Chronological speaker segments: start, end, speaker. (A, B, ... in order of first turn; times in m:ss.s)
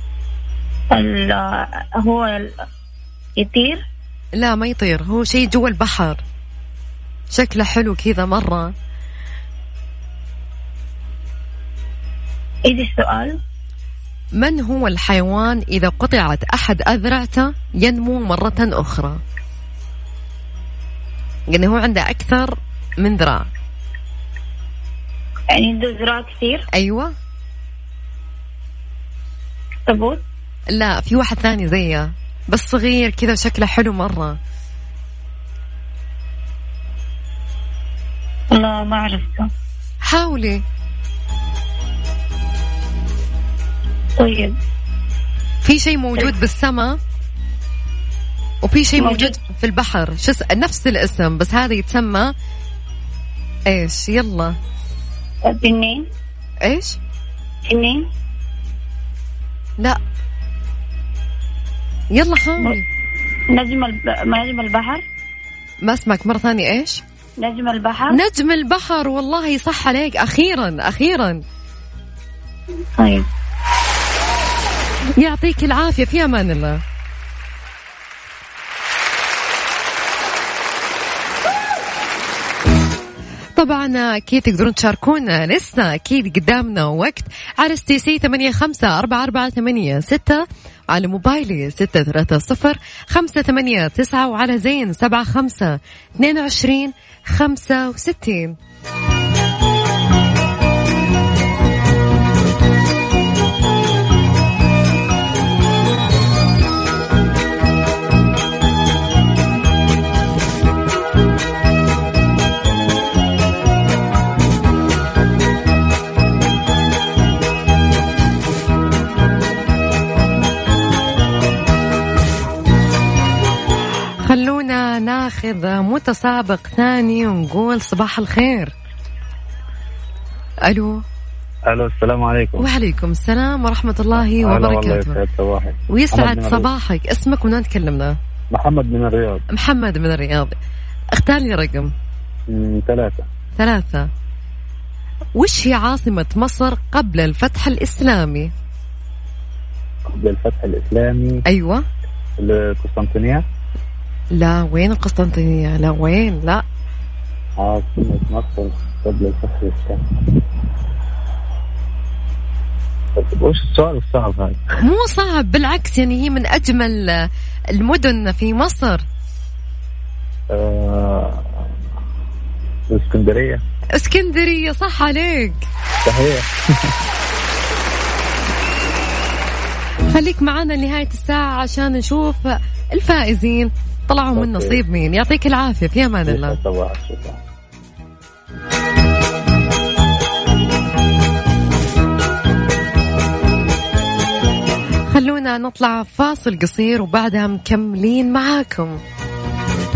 0:00.9-0:02.5 A
0:03.4-0:03.8 A
0:04.4-0:06.2 B
0:07.3-0:08.7 B
0:12.7-0:13.4 A
0:14.4-0:19.2 B
0:21.5-0:23.5 B
0:25.6-0:26.6 A
0:26.7-0:27.1 B
0:29.9-0:30.2 A
0:30.7-0:34.4 B
0:38.5-0:39.5 A
0:40.0-0:40.6 B
0:44.2-0:44.5 A
0:45.6-0:47.0 B
0:48.6-0:52.3 B
0:49.0-0:49.4 A
0:53.7-0:54.6 B
0:55.5-0:56.1 A
0:56.6-0:57.0 B
0:57.7-0:58.1 A
1:02.1-1:02.8 B
1:03.5-1:05.0 A
1:05.8-1:07.0 B
1:07.4-1:08.2 A
1:08.1-1:11.4 B
1:13.0-1:13.3 A
1:15.2-1:16.8 B
1:23.6-1:38.6 B
2:04.2-2:08.7 B
2:10.7-2:11.0 B
2:11.7-2:12.7 C
2:12.6-2:15.2 B
2:14.2-2:16.7 C
2:15.9-2:18.2 B
2:18.5-2:19.4 C
2:19.5-2:20.6 B
2:21.2-2:21.9 B
2:22.5-2:23.2 C
2:23.6-2:24.1 B
2:25.4-2:28.5 B
2:30.1-2:31.4 C
2:31.5-2:31.8 B
2:32.4-2:33.4 C
2:34.3-2:36.6 B
2:37.6-2:40.2 C
2:43.2-2:44.7 C
2:44.8-2:49.0 B
2:50.5-2:51.5 C
2:52.9-2:53.6 C
2:54.0-2:55.6 B
2:56.1-2:56.5 C
3:00.1-3:06.6 B
3:04.4-3:04.8 C
3:06.3-3:07.4 C
3:15.1-3:19.0 B